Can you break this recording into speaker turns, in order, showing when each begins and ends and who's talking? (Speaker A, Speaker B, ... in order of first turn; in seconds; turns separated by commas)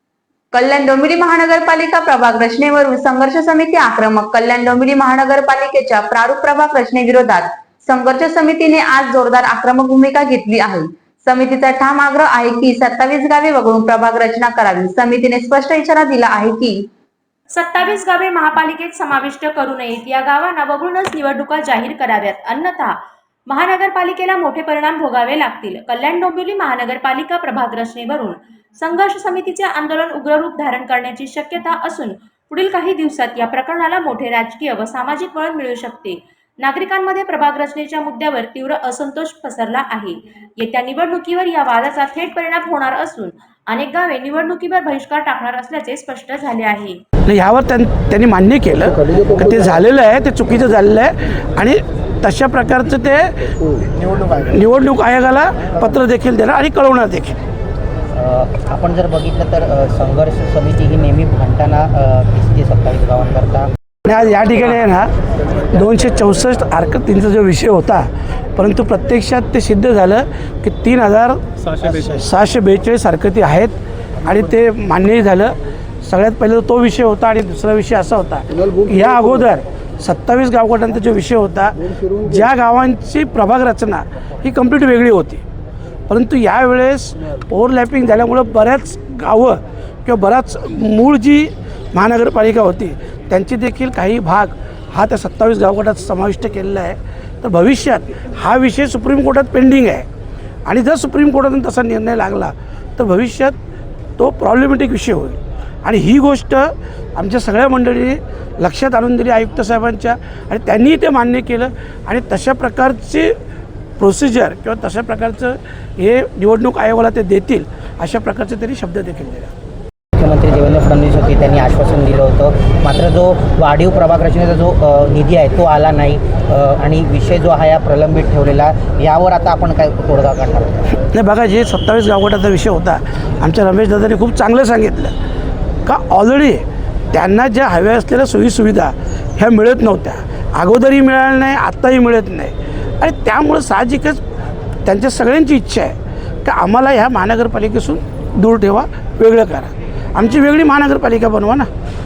Speaker A: 0.5-16.8, Speaker B: 17.5-47.0, Speaker C: 47.2-53.5, Speaker C: 54.3-57.4, Speaker D: 58.1-63.7, Speaker C: 64.0-65.1, Speaker C: 65.7-85.4, Speaker C: 86.1-100.0, Speaker C: 100.7-103.6, Speaker C: 104.2-113.3, Speaker C: 114.0-119.5, Speaker D: 120.2-130.9, Speaker C: 131.0-135.1, Speaker C: 135.8-144.2, Speaker C: 144.8-151.7